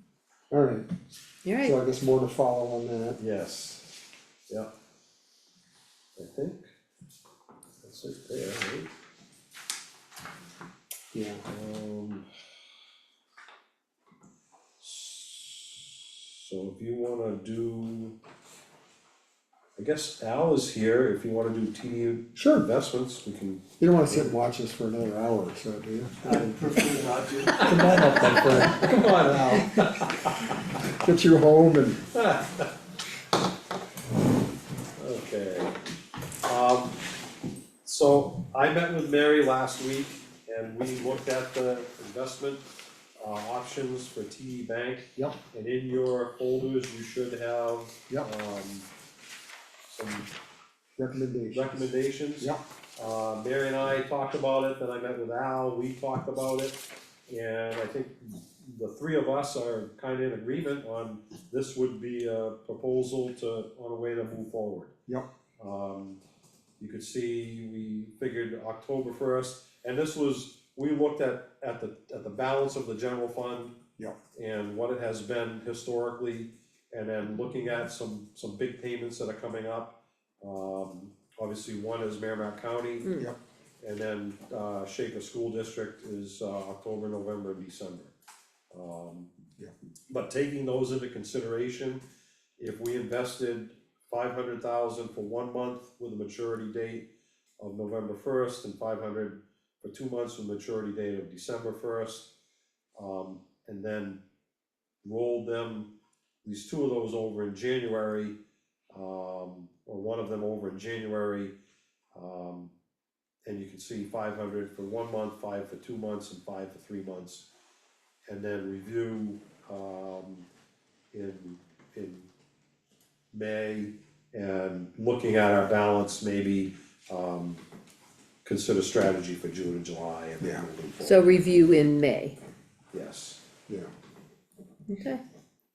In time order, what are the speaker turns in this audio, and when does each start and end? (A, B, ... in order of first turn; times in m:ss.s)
0:00.5-0:00.9 A
0:01.4-0:01.7 B
0:01.6-0:03.2 A
0:03.2-0:03.9 C
0:06.2-0:06.6 C
0:07.8-0:08.9 C
0:11.1-0:11.4 A
0:11.5-0:12.2 C
0:14.8-0:18.2 C
0:19.8-0:24.4 C
0:22.4-0:22.7 A
0:23.8-0:26.7 A
0:26.2-0:28.2 D
0:27.4-0:30.4 C
0:27.6-0:29.6 A
0:30.9-0:32.0 A
0:32.1-0:32.7 C
0:35.0-0:35.8 C
0:36.4-0:37.0 C
0:37.8-0:42.6 C
0:43.2-0:48.9 C
0:49.9-0:50.3 C
0:51.0-0:51.8 A
0:51.5-1:04.9 C
1:05.6-1:06.2 C
1:06.8-1:13.8 C
1:14.3-1:23.2 C
1:23.0-1:23.3 B
1:23.8-1:28.1 C
1:28.7-1:29.3 C
1:30.1-1:32.0 C
1:32.6-1:37.1 C
1:37.6-1:42.3 C
1:43.0-1:44.2 C
1:45.0-1:45.9 C
1:46.4-1:48.4 C
1:48.9-1:51.5 C
1:52.1-1:52.7 C
1:53.4-1:57.4 C
1:58.3-2:00.5 C
2:01.1-2:02.3 C
2:03.3-2:07.6 C
2:08.4-2:11.2 C
2:11.0-2:12.4 B
2:12.9-2:13.4 C
2:14.9-2:15.2 B